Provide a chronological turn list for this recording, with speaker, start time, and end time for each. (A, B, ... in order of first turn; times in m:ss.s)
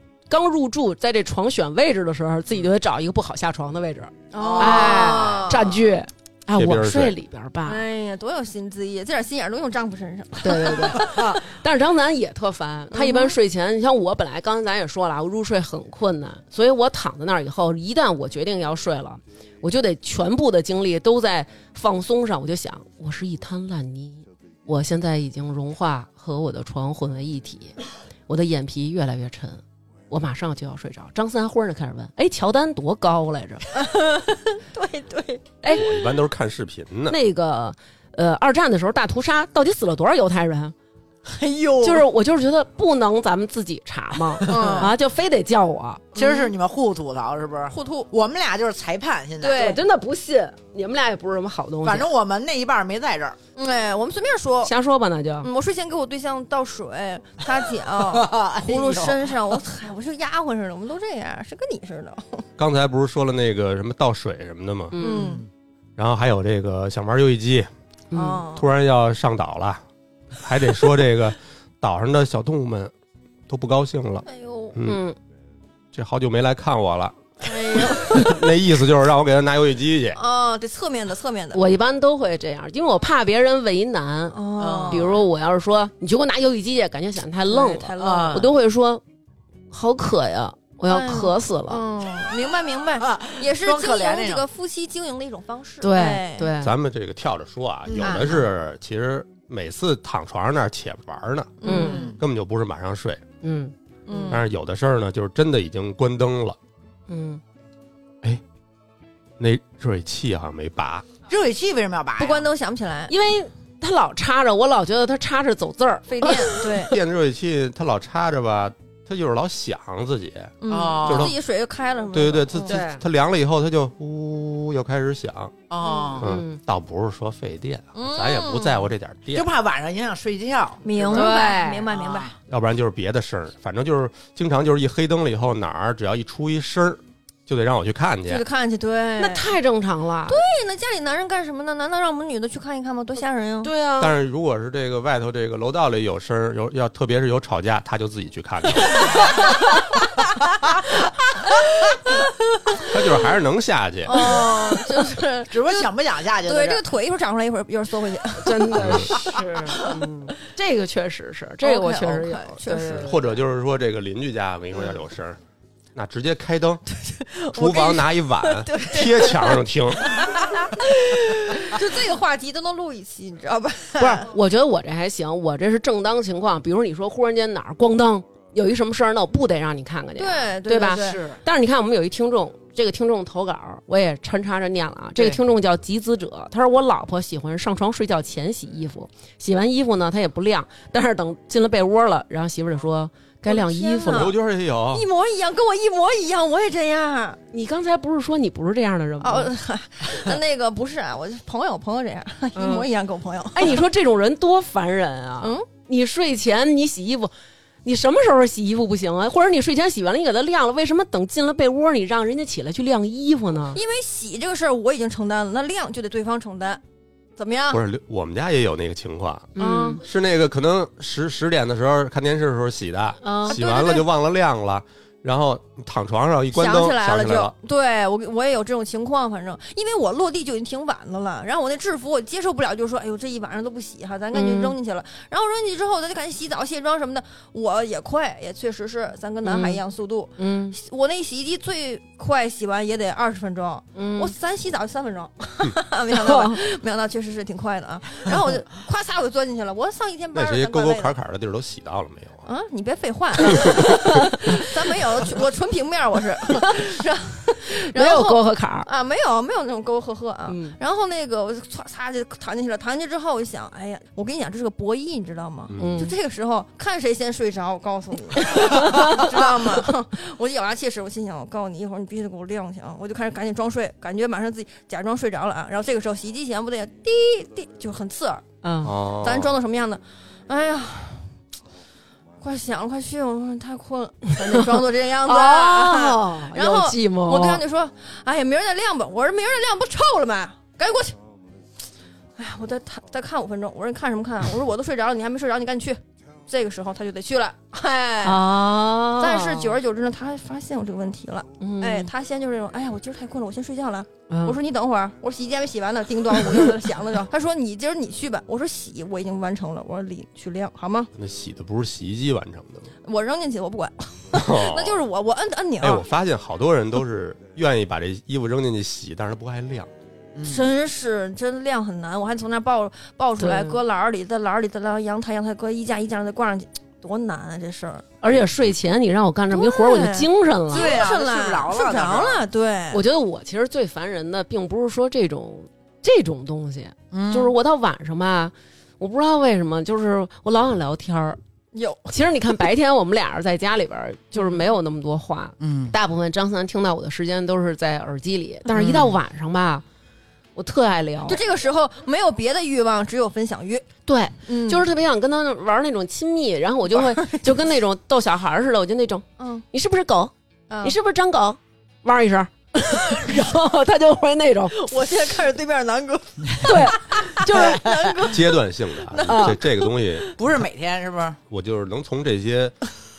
0:00.3-0:07.8 A
0:04.3-0:05.9 B
0:04.3-0:05.5 C
0:06.5-0:07.2 D
0:07.7-0:11.4 B
0:10.4-0:27.8 A
0:12.9-0:13.4 B
0:28.3-0:33.8 A
0:33.7-0:35.4 B
0:35.6-0:35.9 A
0:35.7-0:37.2 D
0:37.1-0:40.7 A
0:41.3-0:42.0 B
0:41.8-0:46.0 A
0:44.4-0:44.9 B
0:44.4-0:44.9 C
0:46.2-0:46.5 B
0:46.2-0:49.7 C
0:47.7-0:48.1 B
0:49.4-0:49.8 B
0:49.6-0:52.1 A
0:51.8-0:53.4 C
0:53.6-0:54.7 B
0:54.6-0:55.5 A
0:55.4-1:02.4 B
0:58.0-0:59.2 C
1:02.6-1:05.0 D
1:04.9-1:05.4 A
1:05.0-1:05.4 B
1:05.1-1:05.5 C
1:06.0-1:07.7 D
1:08.1-1:08.4 A
1:08.1-1:08.7 B
1:08.5-1:09.8 D
1:10.4-1:12.9 D
1:13.5-1:15.0 D
1:14.2-1:14.8 B
1:14.8-1:15.2 A
1:15.9-1:20.2 D
1:17.4-1:18.4 B
1:20.2-1:21.7 B
1:21.5-1:29.0 A
1:24.3-1:25.2 B
1:24.6-1:25.2 C
1:27.5-1:28.5 B
1:28.0-1:28.5 C
1:29.7-1:31.8 A
1:30.9-1:36.5 B
1:33.0-1:34.4 C
1:35.8-1:36.7 A
1:36.6-1:41.6 D
1:37.9-1:38.4 C
1:38.0-1:38.4 B
1:41.6-1:42.2 B
1:41.6-1:42.0 A
1:41.7-1:42.2 C
1:42.2-1:43.2 D
1:43.4-1:44.4 A
1:44.1-1:44.4 B
1:44.3-1:46.6 D
1:47.1-1:47.4 A
1:49.4-1:51.1 D
1:51.3-1:52.5 C
1:52.2-1:53.1 B
1:53.1-1:56.9 A
1:56.1-1:57.0 B
1:56.9-2:01.4 D
2:00.6-2:02.8 B
2:00.7-2:01.3 C
2:02.1-2:05.6 D
2:02.6-2:03.0 A
2:05.7-2:06.3 C
2:05.8-2:06.2 B
2:06.2-2:09.5 D
2:06.2-2:06.6 A
2:07.9-2:08.9 B
2:09.3-2:11.4 C
2:10.8-2:12.3 B
2:11.1-2:11.9 A
2:11.9-2:12.3 C
2:12.5-2:18.4 D
2:18.3-2:19.5 B
2:19.2-2:20.4 A
2:20.3-2:23.7 B
2:23.6-2:24.1 A
2:24.0-2:29.1 D
2:32.8-2:34.3 D
2:34.1-2:39.1 B
2:35.5-2:36.8 C
2:38.4-2:43.2 A
2:38.8-2:39.1 D
2:41.6-2:43.2 B
2:43.0-2:45.4 D
2:46.0-2:46.8 D
2:46.9-2:54.3 B
2:47.5-2:50.2 D
2:54.0-3:14.3 A
3:00.2-3:01.3 B
3:00.9-3:01.4 C
3:13.5-3:14.4 B
3:14.1-3:15.0 D
3:14.9-3:17.4 B
3:17.5-3:19.5 A
3:19.2-3:23.8 B
3:22.6-3:22.9 A
3:23.5-3:27.3 A
3:25.4-3:25.7 B
3:27.8-3:33.8 A
3:33.7-3:36.8 B
3:37.4-3:37.8 B
3:37.7-3:47.5 D
3:39.6-3:40.0 A
3:39.6-3:40.0 B
3:43.2-3:43.6 A
3:43.5-3:44.1 B
3:46.5-4:11.1 B
3:54.3-3:54.8 A
3:59.4-3:59.8 A
4:00.4-4:00.8 A
4:04.0-4:04.3 A
4:06.1-4:06.6 A
4:10.3-4:12.4 D
4:12.4-4:38.4 B
4:13.7-4:14.7 A
4:17.7-4:18.9 A
4:20.5-4:20.8 A
4:25.7-4:26.0 D
4:25.8-4:26.1 A
4:28.4-4:29.3 A
4:38.6-4:38.9 A
4:38.8-4:39.6 D
4:39.1-4:41.3 B
4:42.4-4:51.2 B
4:44.5-4:47.6 A
4:52.4-5:11.1 B
4:58.2-4:59.7 A
5:01.6-5:02.1 A
5:04.3-5:04.6 A
5:11.2-5:12.9 D
5:13.0-5:16.0 B
5:14.3-5:15.0 D
5:15.8-5:19.9 D
5:20.4-5:20.7 C
5:20.4-5:28.0 B
5:23.4-5:23.8 A
5:28.2-5:31.0 A
5:29.5-5:33.0 B
5:30.7-5:32.4 C
5:32.9-5:41.4 A
5:37.1-5:37.5 C
5:41.7-5:42.1 B
5:42.1-5:49.8 A
5:45.6-5:46.0 C
5:48.7-5:49.2 C
5:50.6-5:51.4 A
5:51.3-5:53.9 B
5:54.1-6:00.3 A
5:54.5-5:54.9 B
5:56.9-5:57.5 B
5:59.4-5:59.7 B
6:00.7-6:01.0 B
6:00.8-6:04.8 A
6:04.7-6:10.2 B
6:06.6-6:07.8 A
6:07.6-6:08.0 C
6:08.3-6:10.3 D
6:09.3-6:09.6 A
6:10.4-6:11.4 C
6:11.5-6:12.8 D